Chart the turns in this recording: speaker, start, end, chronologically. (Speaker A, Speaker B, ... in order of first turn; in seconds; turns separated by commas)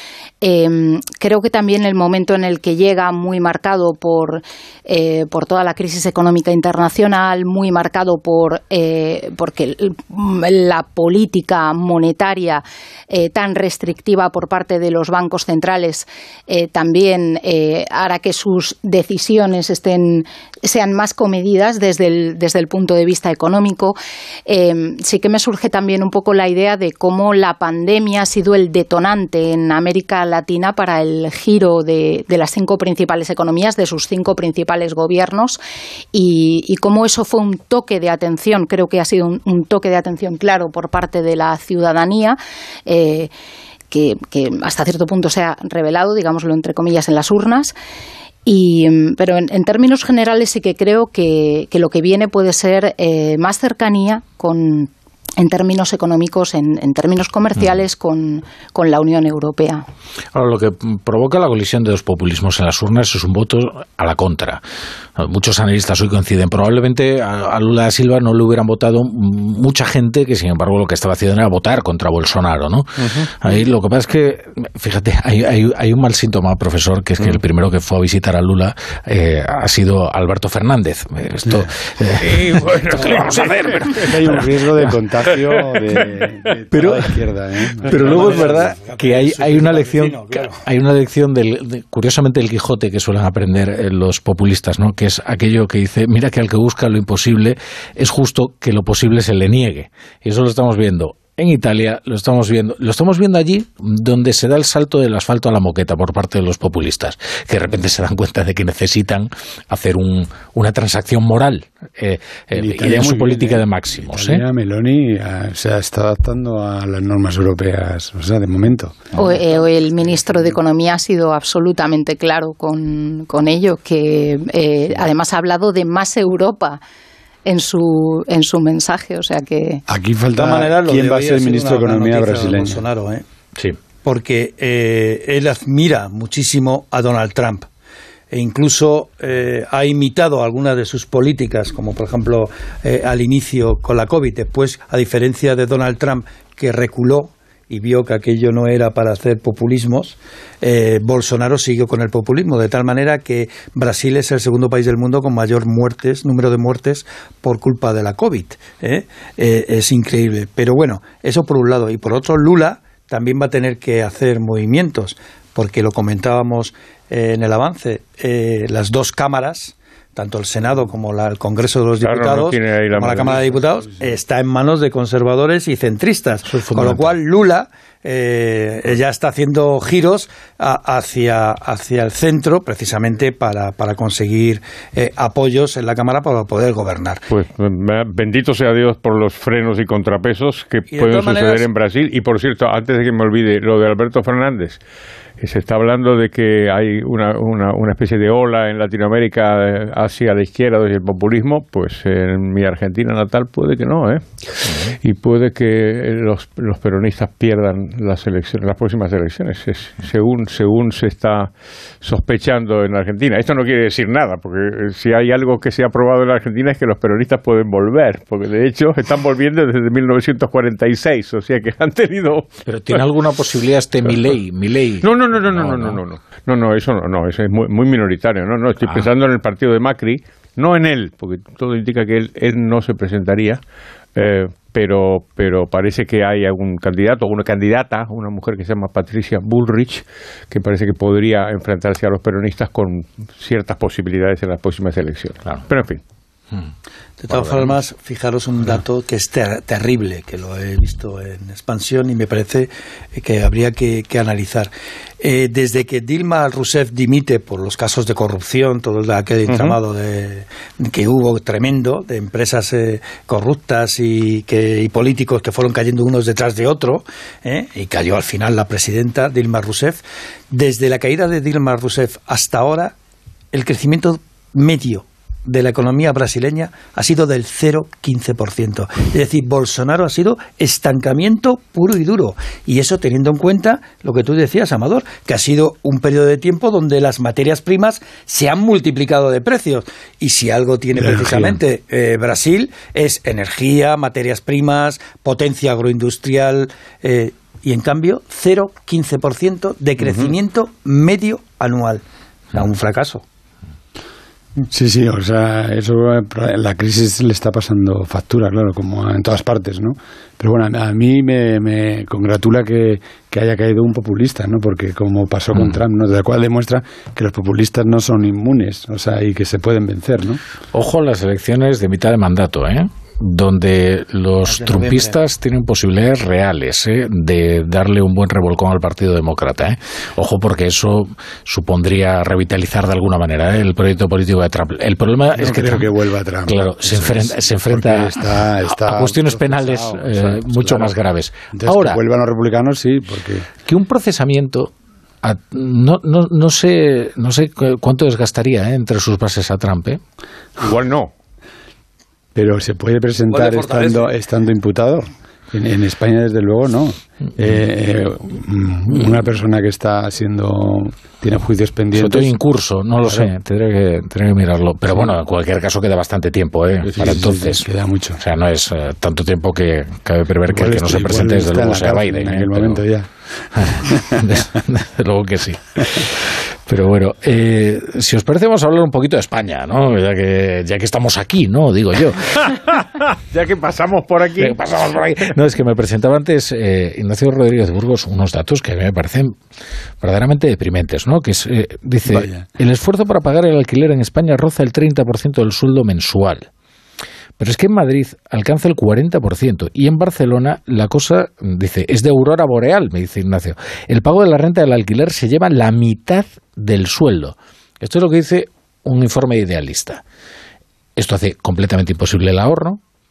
Speaker A: 0.4-35.6, Speaker A: 36.1-43.3, Speaker A: 43.9-47.8, Speaker A: 48.5-59.9, Speaker B: 60.3-64.6, Speaker B: 65.2-84.9, Speaker C: 73.0-73.3, Speaker C: 82.2-84.1, Speaker D: 84.0-88.7, Speaker B: 86.7-87.1, Speaker B: 87.8-114.4, Speaker E: 87.9-90.6, Speaker D: 112.5-119.4, Speaker A: 119.2-126.8, Speaker A: 127.5-129.8, Speaker D: 129.9-132.8, Speaker E: 130.4-133.2, Speaker E: 134.0-137.7, Speaker E: 138.3-187.2, Speaker C: 172.0-173.6, Speaker B: 176.5-177.2, Speaker C: 187.3-194.8, Speaker E: 190.9-191.7, Speaker C: 195.4-204.3, Speaker B: 204.7-205.0, Speaker C: 205.0-211.5, Speaker C: 212.0-223.0, Speaker B: 222.7-226.0, Speaker C: 225.0-233.6, Speaker B: 228.8-229.1, Speaker C: 234.2-246.0, Speaker E: 247.2-272.9, Speaker B: 247.3-247.8, Speaker C: 259.5-259.8, Speaker E: 273.5-302.0, Speaker D: 290.9-291.6, Speaker E: 302.5-303.2, Speaker D: 304.7-320.4, Speaker B: 315.5-315.8, Speaker B: 320.7-335.9, Speaker E: 324.4-325.2, Speaker D: 335.3-340.9, Speaker B: 336.5-342.0, Speaker D: 341.5-343.5, Speaker B: 343.6-350.0, Speaker C: 350.6-351.1, Speaker D: 352.4-362.4, Speaker E: 353.3-354.1, Speaker B: 362.0-367.7, Speaker D: 363.1-363.3, Speaker D: 366.8-368.2, Speaker B: 368.2-372.8, Speaker D: 370.5-373.1, Speaker B: 373.6-382.2, Speaker D: 373.8-374.4, Speaker C: 382.4-384.6, Speaker B: 384.4-389.4, Speaker B: 390.0-396.5, Speaker D: 392.1-392.4, Speaker B: 397.4-410.0, Speaker B: 411.0-412.8